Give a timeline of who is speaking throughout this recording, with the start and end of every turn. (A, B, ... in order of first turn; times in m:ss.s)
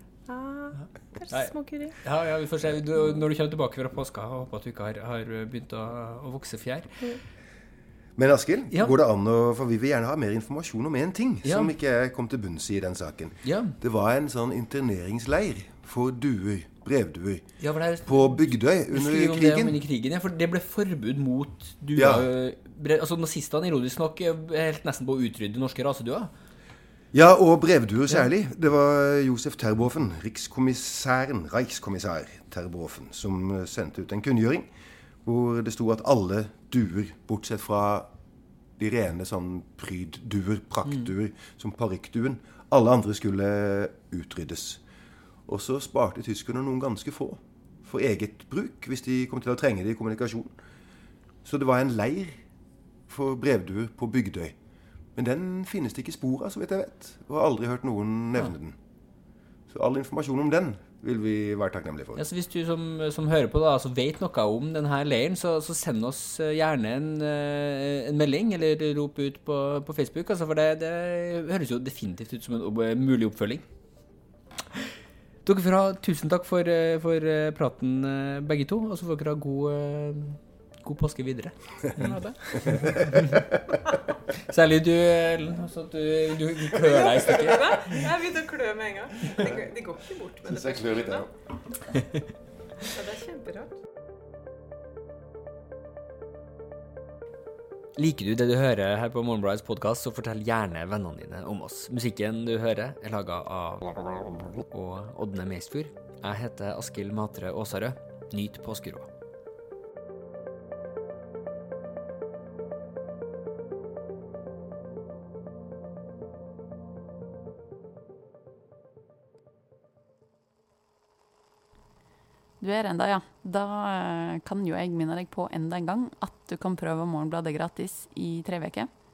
0:00.3-0:02.0 A
0:01.3-0:07.0 B
0:08.2-0:17.5 C
0:11.4-0:11.7 B
0:13.4-0:13.8 B
0:17.6-0:26.3 B
0:18.0-0:19.8 C
0:22.0-0:22.3 C
0:27.1-0:34.7 C
0:35.2-0:38.1 C
0:38.8-0:44.8 C
0:45.5-0:50.5 C
0:51.4-0:52.4 C
0:53.1-0:54.5 C
0:55.2-0:58.8 C
0:59.7-1:02.2 C
1:02.2-1:13.6 B
1:15.4-1:22.1 B
1:22.0-1:22.7 A
1:22.9-1:23.4 B
1:24.4-1:28.0 B
1:26.8-1:31.3 A
1:30.4-1:31.3 C
1:32.8-1:33.8 A
1:38.0-1:49.1 B
2:02.6-2:08.9 D